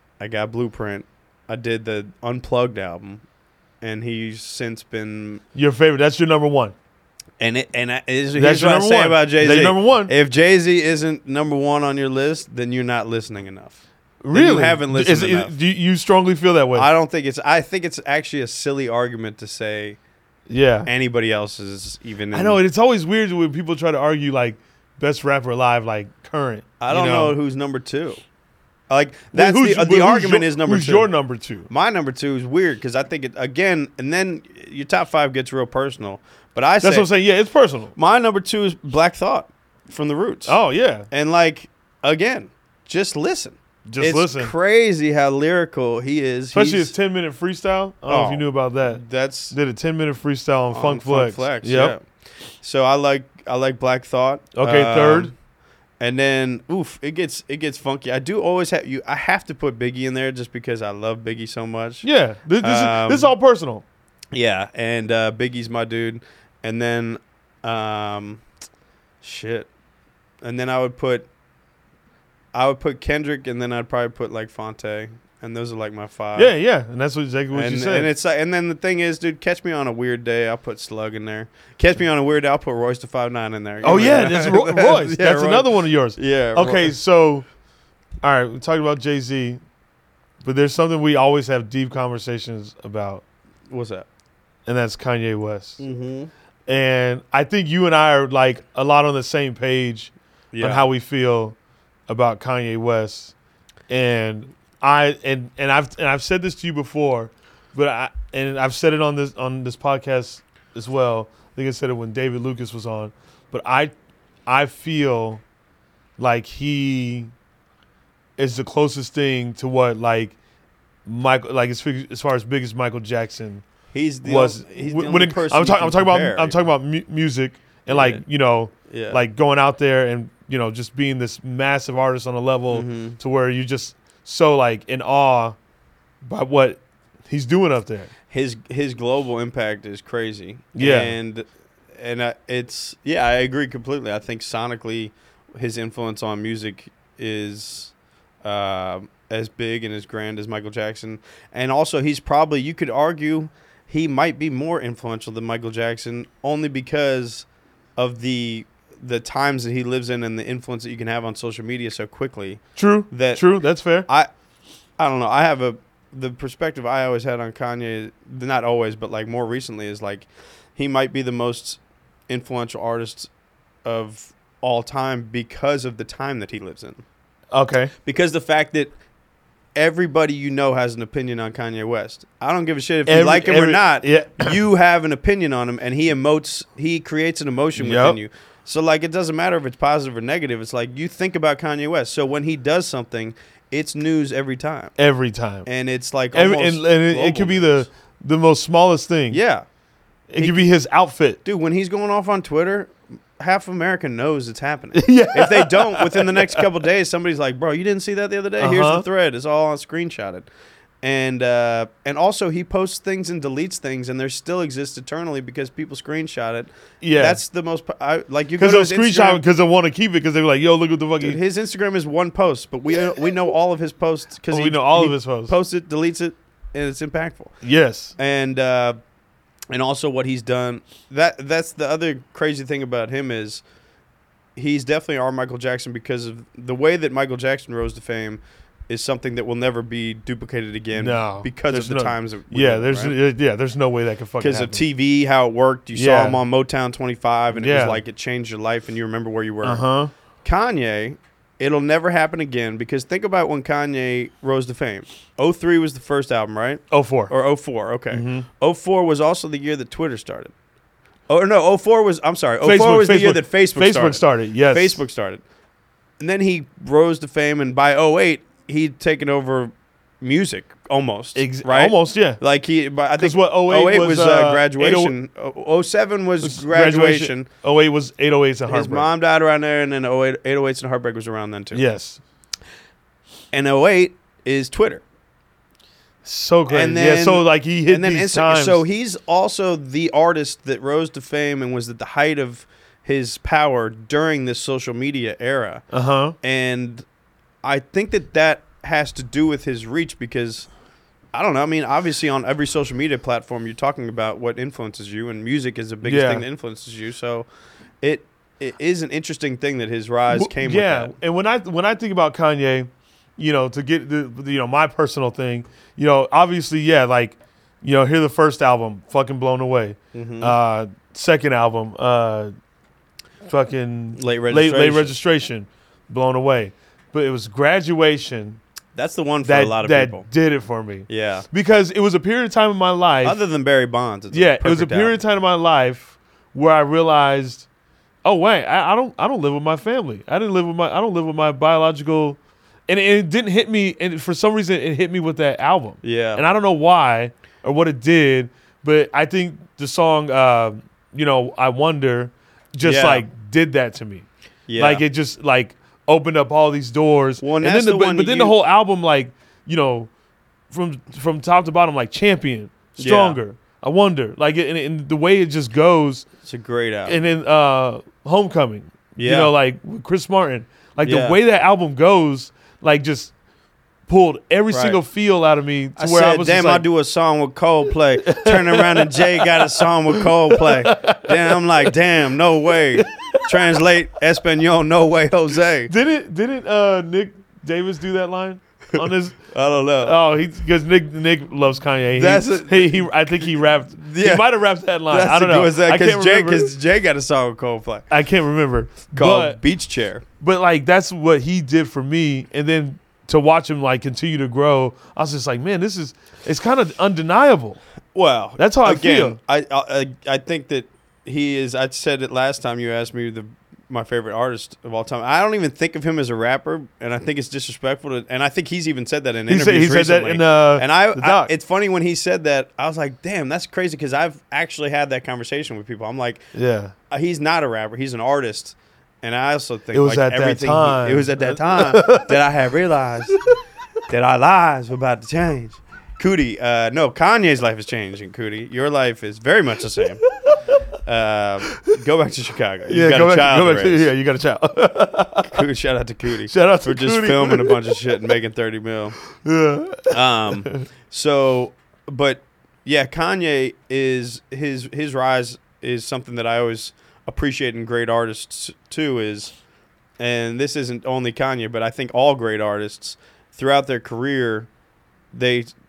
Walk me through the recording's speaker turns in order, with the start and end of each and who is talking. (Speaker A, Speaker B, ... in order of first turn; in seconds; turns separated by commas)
Speaker A: 0.2-3.2, Speaker A: 3.8-5.4, Speaker B: 5.5-6.7, Speaker A: 7.4-13.8, Speaker B: 8.4-10.1, Speaker B: 14.2-16.9, Speaker A: 14.3-15.5, Speaker A: 16.8-20.0, Speaker B: 20.5-20.9, Speaker A: 20.9-22.6, Speaker B: 22.3-27.4, Speaker A: 26.8-28.2, Speaker A: 28.9-31.1, Speaker B: 29.3-31.7, Speaker A: 31.7-37.1, Speaker B: 36.8-37.9, Speaker A: 38.0-46.9, Speaker B: 40.5-41.1, Speaker B: 43.9-44.5, Speaker B: 46.5-51.9, Speaker A: 48.1-49.6, Speaker A: 50.7-52.0, Speaker A: 52.6-55.3, Speaker B: 54.5-55.3, Speaker A: 56.0-62.0, Speaker B: 62.0-63.8, Speaker A: 62.6-63.3, Speaker A: 64.3-68.4, Speaker A: 69.2-69.7, Speaker A: 70.4-71.3, Speaker A: 72.5-76.5, Speaker B: 76.3-78.1, Speaker A: 77.5-86.9, Speaker B: 83.8-87.5, Speaker B: 88.2-89.6, Speaker B: 90.4-93.2, Speaker A: 93.7-94.1, Speaker B: 94.7-95.8, Speaker A: 95.8-96.3, Speaker B: 96.7-101.6, Speaker A: 100.5-100.9, Speaker B: 102.1-103.3, Speaker B: 103.9-113.9, Speaker B: 114.5-115.4, Speaker B: 116.2-117.3, Speaker B: 118.4-120.3, Speaker B: 121.1-123.7, Speaker A: 123.9-126.6, Speaker B: 124.2-135.6, Speaker A: 127.9-128.2, Speaker A: 128.9-129.2, Speaker A: 132.7-133.2, Speaker B: 136.2-138.1, Speaker A: 138.3-163.5, Speaker B: 140.8-141.2, Speaker B: 162.8-164.1, Speaker A: 165.0-173.3, Speaker A: 173.8-177.0, Speaker B: 177.5-177.9, Speaker A: 178.1-178.9, Speaker A: 179.8-194.9, Speaker B: 183.1-184.6, Speaker B: 187.8-188.2, Speaker B: 195.0-195.7, Speaker A: 195.7-197.9, Speaker B: 196.3-199.4, Speaker A: 199.3-199.7, Speaker B: 200.3-201.4, Speaker A: 200.4-200.7, Speaker A: 201.4-210.5, Speaker B: 204.9-206.6, Speaker B: 208.6-209.1, Speaker A: 211.0-219.4, Speaker B: 217.0-217.4, Speaker B: 218.6-221.4, Speaker A: 221.2-227.6, Speaker B: 224.5-225.5, Speaker B: 227.6-228.2, Speaker A: 228.2-229.0, Speaker A: 229.7-233.6, Speaker A: 234.6-243.2, Speaker B: 240.9-244.8, Speaker A: 244.4-249.9, Speaker B: 245.9-246.4, Speaker B: 247.6-248.0, Speaker B: 249.6-250.1, Speaker A: 250.4-260.5, Speaker B: 256.9-257.3, Speaker B: 258.1-258.5, Speaker A: 261.3-265.4, Speaker B: 262.6-265.0, Speaker A: 266.2-277.5, Speaker B: 271.4-272.4, Speaker B: 273.2-275.1, Speaker B: 276.4-279.1, Speaker A: 278.7-281.8, Speaker B: 281.7-282.2, Speaker A: 283.5-285.0, Speaker B: 286.2-288.8, Speaker A: 286.7-295.9, Speaker B: 295.9-296.4, Speaker A: 296.4-297.1, Speaker A: 297.6-300.7, Speaker A: 301.3-307.5, Speaker B: 306.0-306.4, Speaker A: 308.0-311.1, Speaker B: 310.3-322.5, Speaker A: 320.1-320.6, Speaker B: 323.5-328.6, Speaker A: 324.2-325.1, Speaker A: 328.9-330.3, Speaker B: 329.4-333.4, Speaker A: 331.1-331.5, Speaker A: 333.2-335.2, Speaker B: 334.3-337.7, Speaker B: 338.2-354.3, Speaker A: 346.0-346.4, Speaker A: 352.8-353.2, Speaker A: 354.7-355.1, Speaker B: 354.8-360.1, Speaker A: 357.4-358.5, Speaker B: 360.7-366.2, Speaker A: 363.0-363.4, Speaker A: 366.4-367.2, Speaker B: 367.1-373.3, Speaker A: 369.2-369.5, Speaker A: 371.0-371.4, Speaker B: 374.1-376.9, Speaker A: 374.7-375.0, Speaker A: 376.0-385.9, Speaker B: 378.2-381.9, Speaker B: 383.0-383.8, Speaker B: 385.9-389.4, Speaker A: 389.0-390.1, Speaker B: 390.0-396.7, Speaker A: 392.2-394.5, Speaker A: 395.1-398.1, Speaker B: 398.1-399.6, Speaker A: 399.1-400.2, Speaker B: 400.4-407.8, Speaker A: 408.1-426.5, Speaker B: 408.6-409.4, Speaker B: 419.5-421.5, Speaker B: 426.5-426.9, Speaker A: 427.1-433.4, Speaker B: 429.9-432.3, Speaker A: 434.1-440.2, Speaker B: 440.5-440.7, Speaker A: 441.1-444.1, Speaker B: 442.9-445.6, Speaker A: 445.5-449.2, Speaker B: 446.5-448.0, Speaker B: 449.4-450.2, Speaker A: 450.1-459.6, Speaker A: 460.2-464.7, Speaker A: 465.3-465.7